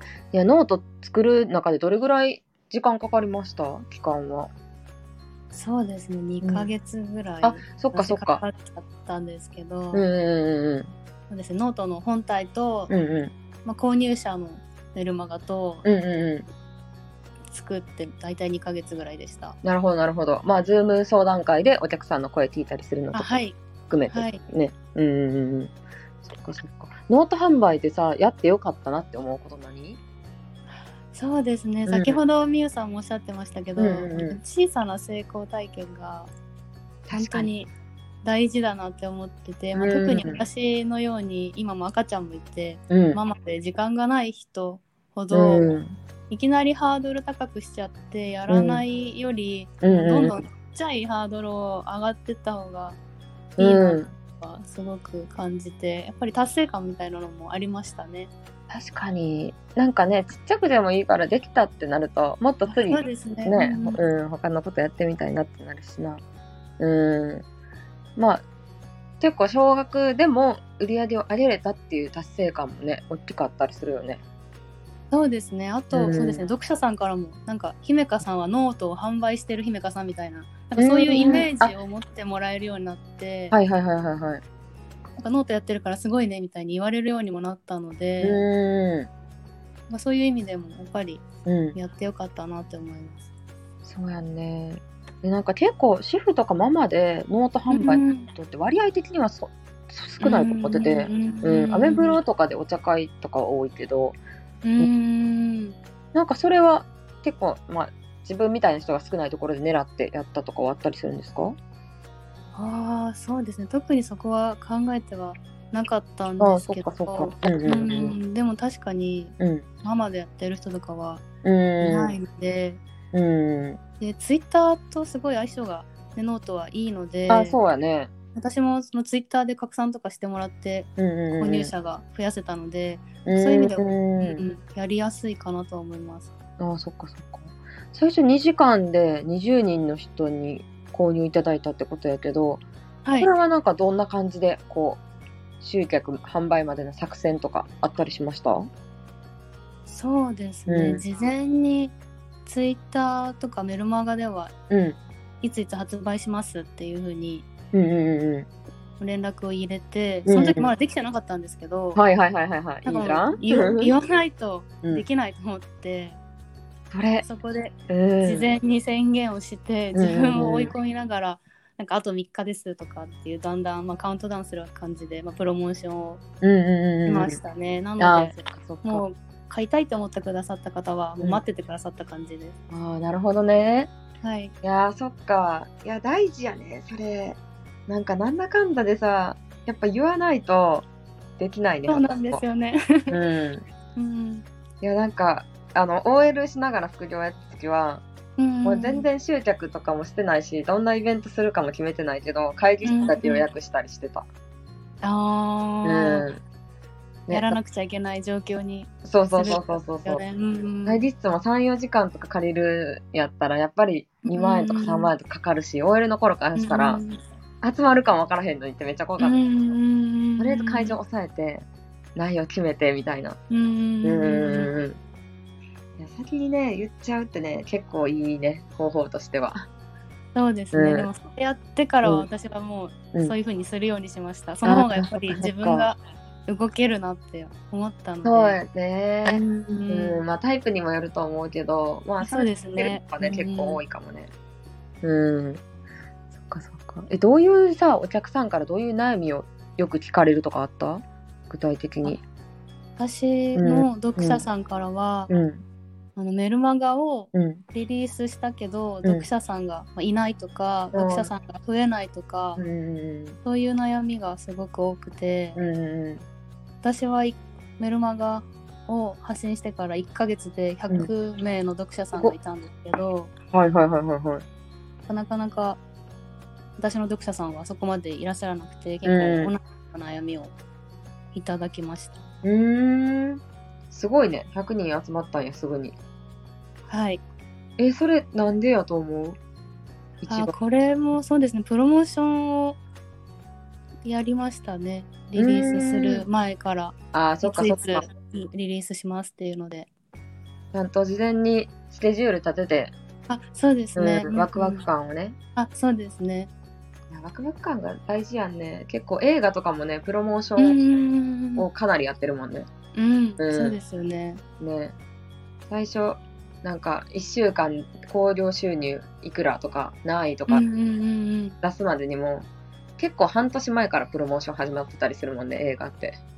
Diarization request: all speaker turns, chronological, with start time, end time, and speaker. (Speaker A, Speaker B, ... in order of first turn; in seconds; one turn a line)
Speaker A: 0.3-4.5
Speaker B: 5.5-10.1
Speaker A: 6.4-6.7
Speaker A: 7.4-8.4
Speaker A: 9.9-10.9
Speaker B: 11.3-12.9
Speaker A: 12.9-13.3
Speaker B: 13.7-15.9
Speaker A: 15.8-16.5
Speaker B: 17.5-19.6
Speaker A: 19.6-23.3
Speaker B: 23.1-23.6
Speaker A: 23.9-25.7
Speaker B: 24.1-24.4
Speaker A: 26.2-30.0
Speaker B: 31.1-36.3
Speaker A: 31.9-32.2
Speaker A: 33.8-34.4
Speaker A: 37.1-37.5
Speaker B: 37.1-37.7
Speaker B: 38.2-45.7
Speaker A: 39.8-40.4
Speaker A: 42.9-43.2
Speaker A: 45.3-46.0
Speaker B: 46.3-53.0
Speaker A: 48.5-48.9
Speaker A: 49.8-50.4
Speaker A: 53.6-54.1
Speaker B: 53.6-58.3
Speaker A: 58.7-66.2
Speaker B: 62.7-64.0
Speaker A: 66.8-67.5
Speaker A: 68.2-68.4
Speaker A: 69.2-74.2
Speaker B: 75.1-83.6
Speaker A: 75.9-76.4
Speaker A: 80.8-81.7
Speaker A: 83.5-84.4
Speaker B: 85.2-88.4
Speaker A: 88.2-89.1
Speaker B: 89.9-93.3
Speaker A: 91.5-91.8
Speaker A: 93.8-104.2
Speaker B: 97.7-98.3
Speaker B: 100.2-102.2
Speaker B: 104.6-105.8
Speaker A: 106.1-111.6
Speaker B: 112.5-121.2
Speaker A: 116.4-118.2
Speaker A: 119.4-119.7
Speaker A: 121.4-122.2
Speaker B: 121.8-122.8
Speaker A: 123.1-123.8
Speaker B: 124.0-127.6
Speaker A: 127.3-128.1
Speaker B: 128.3-136.3
Speaker A: 131.0-131.7
Speaker A: 133.3-134.4
Speaker A: 136.6-142.6
Speaker B: 143.1-143.3
Speaker A: 143.2-145.0
Speaker A: 145.6-148.7
Speaker B: 149.9-154.5
Speaker A: 150.7-151.0
Speaker A: 154.7-155.0
Speaker B: 155.4-157.5
Speaker A: 157.7-158.5
Speaker B: 159.0-162.0
Speaker A: 160.3-160.7
Speaker A: 161.9-163.9
Speaker B: 162.8-166.2
Speaker A: 166.9-167.3
Speaker B: 167.2-176.2
Speaker A: 167.9-168.5
Speaker A: 169.9-170.7
Speaker A: 176.4-177.4
Speaker B: 177.1-182.6
Speaker A: 178.0-179.0
Speaker A: 182.7-183.9
Speaker B: 184.2-184.5
Speaker A: 184.6-192.4
Speaker B: 191.9-193.2
Speaker A: 193.1-193.7
Speaker B: 194.0-194.5
Speaker A: 194.8-198.0
Speaker B: 198.4-199.1
Speaker A: 198.6-204.3
Speaker B: 202.8-203.5
Speaker B: 205.0-206.3
Speaker A: 205.8-206.4
Speaker A: 207.3-207.6
Speaker B: 207.3-211.0
Speaker A: 209.0-210.2
Speaker A: 210.9-217.0
Speaker B: 214.3-215.1
Speaker B: 216.6-217.2
Speaker A: 217.6-219.4
Speaker B: 219.2-221.0
Speaker A: 220.4-223.4
Speaker B: 223.5-224.7
Speaker A: 224.0-225.0
Speaker A: 226.0-229.7
Speaker B: 230.3-238.6
Speaker A: 230.7-231.1
Speaker A: 234.7-235.9
Speaker A: 238.2-244.3
Speaker B: 239.2-240.2
Speaker B: 242.2-243.8
Speaker A: 245.0-245.6
Speaker A: 246.4-252.2
Speaker B: 253.0-255.3
Speaker A: 253.6-254.4
Speaker A: 255.3-255.6
Speaker B: 256.2-262.6
Speaker A: 257.3-257.6
Speaker A: 260.9-261.3
Speaker A: 262.6-263.4
Speaker B: 263.4-265.6
Speaker A: 265.6-266.2
Speaker B: 266.8-273.3
Speaker A: 273.5-274.4
Speaker B: 275.1-275.8
Speaker B: 276.8-280.6
Speaker A: 279.1-279.5
Speaker B: 281.3-282.2
Speaker A: 282.4-286.0
Speaker B: 286.9-287.2
Speaker A: 287.8-289.4
Speaker A: 290.2-290.6
Speaker B: 290.3-292.8
Speaker B: 294.0-299.9
Speaker A: 295.4-296.2
Speaker A: 297.1-298.0
Speaker A: 300.7-302.9
Speaker B: 303.3-304.9
Speaker A: 303.9-305.4
Speaker B: 305.6-306.5
Speaker A: 307.1-310.8
Speaker B: 310.6-311.7
Speaker A: 311.6-312.7
Speaker B: 312.9-314.4
Speaker A: 313.4-313.8
Speaker A: 314.6-314.9
Speaker A: 315.7-320.6
Speaker B: 320.5-321.6
Speaker A: 321.6-322.5
Speaker A: 323.0-326.2